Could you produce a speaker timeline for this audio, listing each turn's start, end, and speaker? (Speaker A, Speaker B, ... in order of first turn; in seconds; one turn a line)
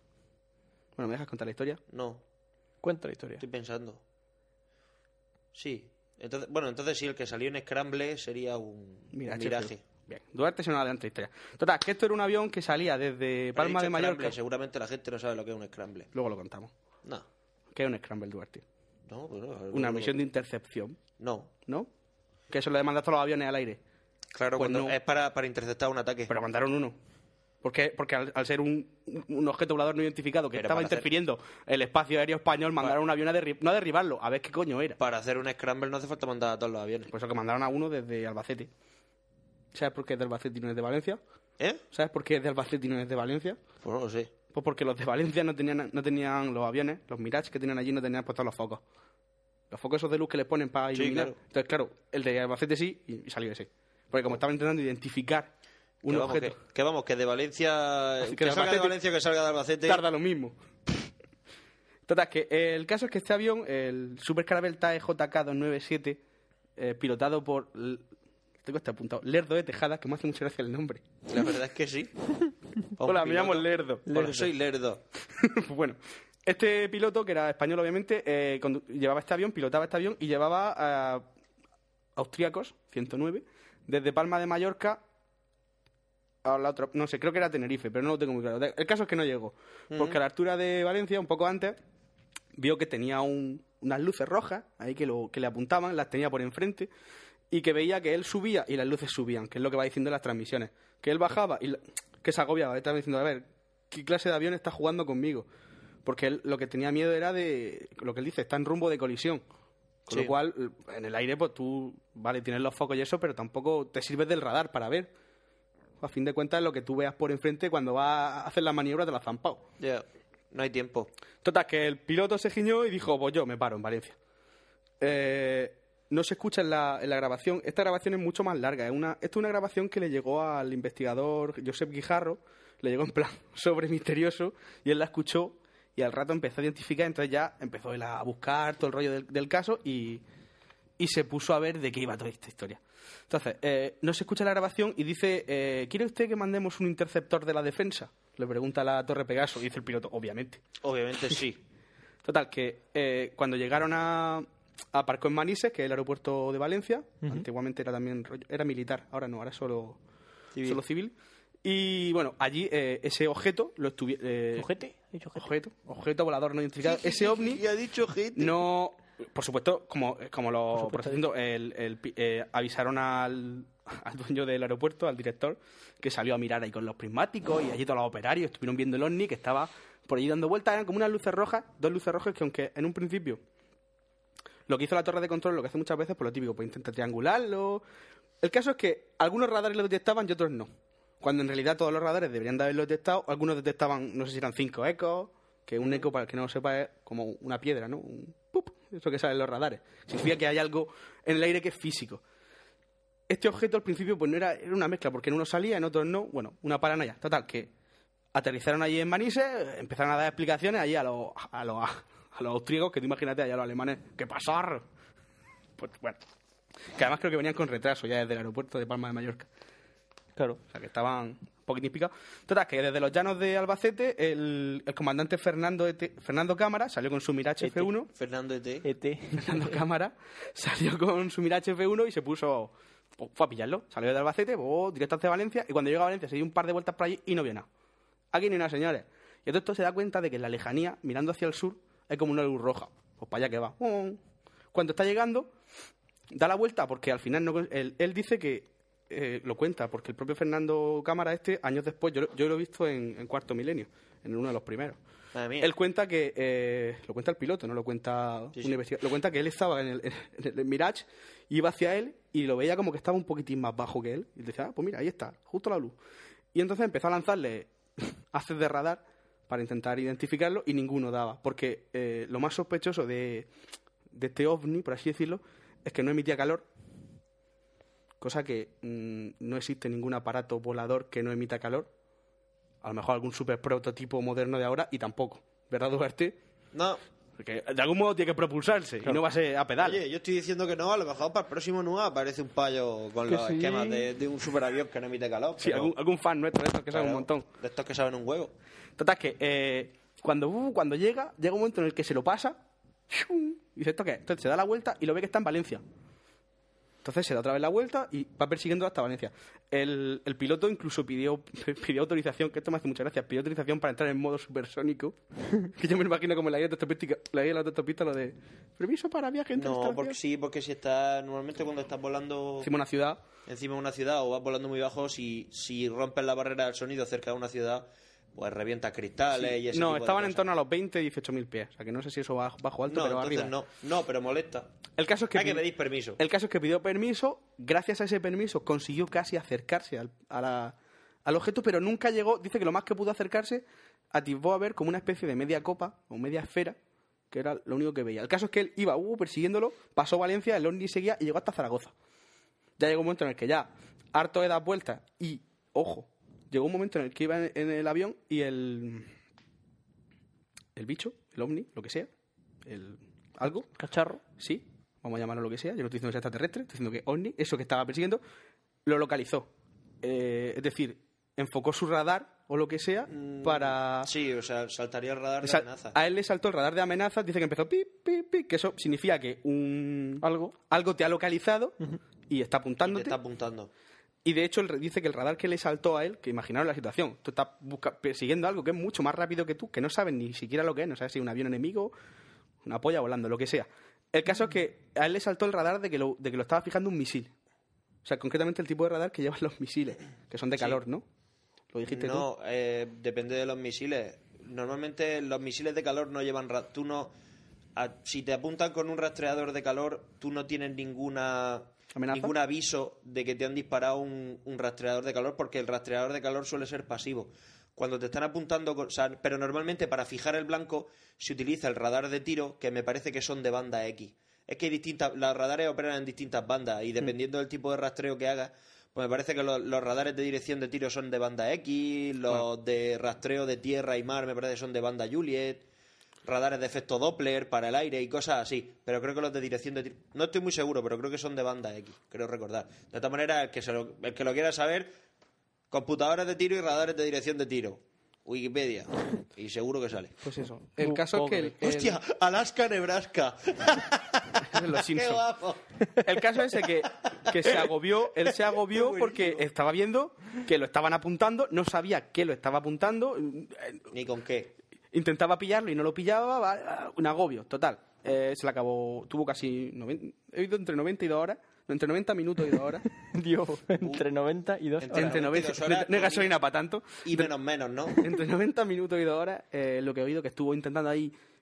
Speaker A: 1.0-1.8
Speaker B: 1.9-2.2
Speaker C: 2.8-3.4
Speaker B: 3.4-4.0
Speaker B: 5.5-9.8
Speaker A: 9.1-14.4
Speaker B: 13.6-16.1
Speaker A: 16.1-16.7
Speaker A: 17.7-18.6
Speaker B: 19.1-20.2
Speaker A: 19.7-21.0
Speaker B: 21.2-21.5
Speaker A: 22.5-23.8
Speaker B: 24.3-26.4
Speaker A: 24.6-24.9
Speaker A: 26.3-27.0
Speaker A: 27.6-35.0
Speaker B: 30.5-31.1
Speaker B: 35.0-37.1
Speaker A: 37.1-38.7
Speaker A: 39.7-41.2
Speaker A: 41.9-43.6
Speaker B: 43.8-44.3
Speaker A: 44.5-48.8
Speaker A: 49.7-55.5
Speaker B: 50.9-51.4
Speaker A: 56.0-56.6
Speaker B: 56.1-60.0
Speaker A: 58.2-59.0
Speaker A: 59.9-60.6
Speaker A: 62.1-66.2
Speaker A: 66.8-68.1
Speaker A: 68.6-71.3
Speaker B: 71.3-72.1
Speaker B: 73.0-75.0
Speaker A: 73.0-74.1
Speaker C: 74.1-74.5
Speaker A: 75.4-81.3
Speaker A: 82.2-85.0
Speaker A: 86.4-91.8
Speaker B: 89.9-90.2
Speaker A: 92.5-96.9
Speaker A: 97.5-105.5
Speaker A: 106.0-109.4
Speaker A: 110.1-115.1
Speaker A: 116.0-119.6
Speaker B: 119.8-121.1
Speaker A: 121.4-124.2
Speaker A: 125.0-140.2
Speaker A: 141.0-150.6
Speaker B: 150.8-151.6
Speaker A: 152.2-160.0
Speaker B: 160.6-160.8
Speaker A: 160.6-164.7
Speaker C: 164.6-165.5
Speaker A: 165.4-167.6
Speaker B: 166.8-168.6
Speaker A: 168.3-183.4
Speaker C: 170.7-171.2
Speaker A: 184.7-187.8
Speaker A: 188.4-202.2
Speaker A: 203.3-207.7
Speaker A: 208.3-214.9
Speaker A: 215.8-216.2
Speaker A: 216.9-219.5
Speaker A: 220.7-228.1
Speaker C: 227.6-227.9
Speaker B: 228.2-228.8
Speaker C: 228.8-229.8
Speaker A: 229.4-237.7
Speaker A: 238.3-244.2
Speaker A: 244.7-245.5
Speaker A: 246.3-255.0
Speaker B: 255.3-255.7
Speaker A: 255.6-266.0
Speaker A: 266.5-273.5
Speaker A: 274.1-276.7
Speaker A: 278.2-281.9
Speaker A: 282.8-286.4
Speaker B: 286.7-287.0
Speaker A: 287.4-290.0
Speaker B: 289.8-295.9
Speaker C: 293.3-294.0
Speaker A: 295.6-297.5
Speaker B: 296.9-298.5
Speaker A: 299.0-305.8
Speaker A: 307.0-320.2
Speaker B: 319.6-322.7
Speaker A: 322.6-323.2
Speaker B: 323.5-330.5
Speaker A: 329.3-333.6
Speaker B: 332.9-334.7
Speaker A: 335.0-335.7
Speaker B: 335.3-336.2
Speaker A: 336.2-346.8
Speaker A: 347.3-351.9
Speaker A: 352.8-359.1
Speaker A: 360.8-362.1
Speaker A: 362.6-363.7
Speaker C: 363.8-364.2
Speaker A: 364.4-368.2
Speaker A: 368.9-369.5
Speaker A: 370.0-374.1
Speaker B: 373.1-375.9
Speaker A: 375.4-381.8
Speaker C: 380.2-380.5
Speaker A: 382.3-383.2
Speaker B: 382.8-383.7
Speaker A: 384.2-391.9
Speaker A: 392.6-397.3
Speaker A: 398.0-401.1
Speaker A: 401.7-402.3
Speaker B: 401.9-407.1
Speaker B: 407.8-435.6
Speaker A: 411.9-412.3
Speaker B: 436.2-444.9
Speaker B: 445.7-450.2
Speaker A: 450.2-452.0
Speaker C: 450.8-451.5
Speaker B: 451.6-455.6
Speaker A: 454.5-455.2
Speaker A: 456.0-463.8
Speaker B: 457.0-457.7
Speaker B: 458.2-459.4
Speaker B: 463.9-464.5
Speaker A: 464.9-472.8
Speaker C: 473.0-475.2
Speaker B: 474.8-476.3
Speaker A: 474.9-477.3
Speaker B: 477.0-478.1
Speaker A: 478.0-481.1